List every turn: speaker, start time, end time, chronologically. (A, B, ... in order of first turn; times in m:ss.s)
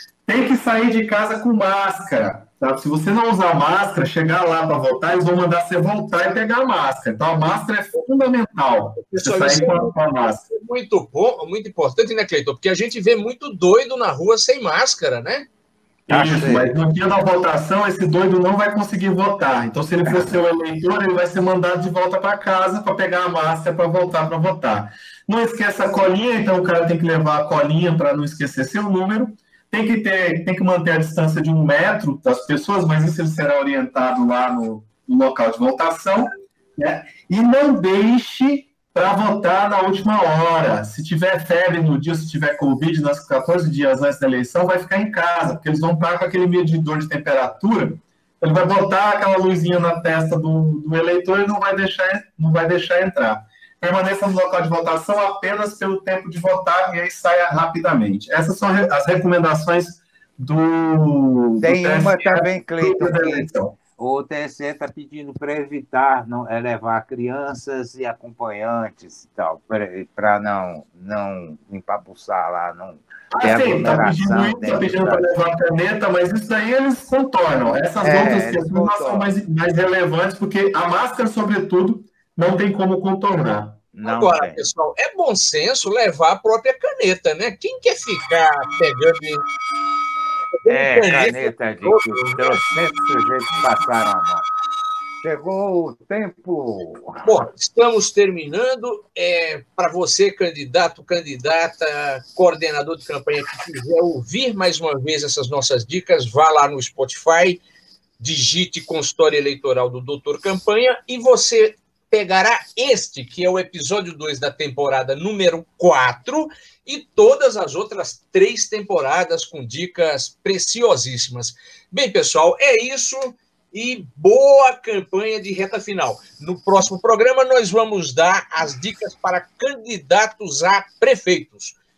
0:00.2-0:10.4 A
0:09.0-0:09.9 B
0:10.5-0:15.5 B
0:16.1-1:03.7 A
0:16.1-0:16.7 C
1:01.6-1:15.3 C
1:13.3-1:23.8 A
1:18.0-1:19.3 C
1:23.9-1:24.6 C
1:24.0-1:29.4 B
1:30.6-1:32.6 B
1:30.6-1:34.5 C
1:35.2-1:37.3 C
1:37.2-1:47.6 B
1:48.2-2:11.8 B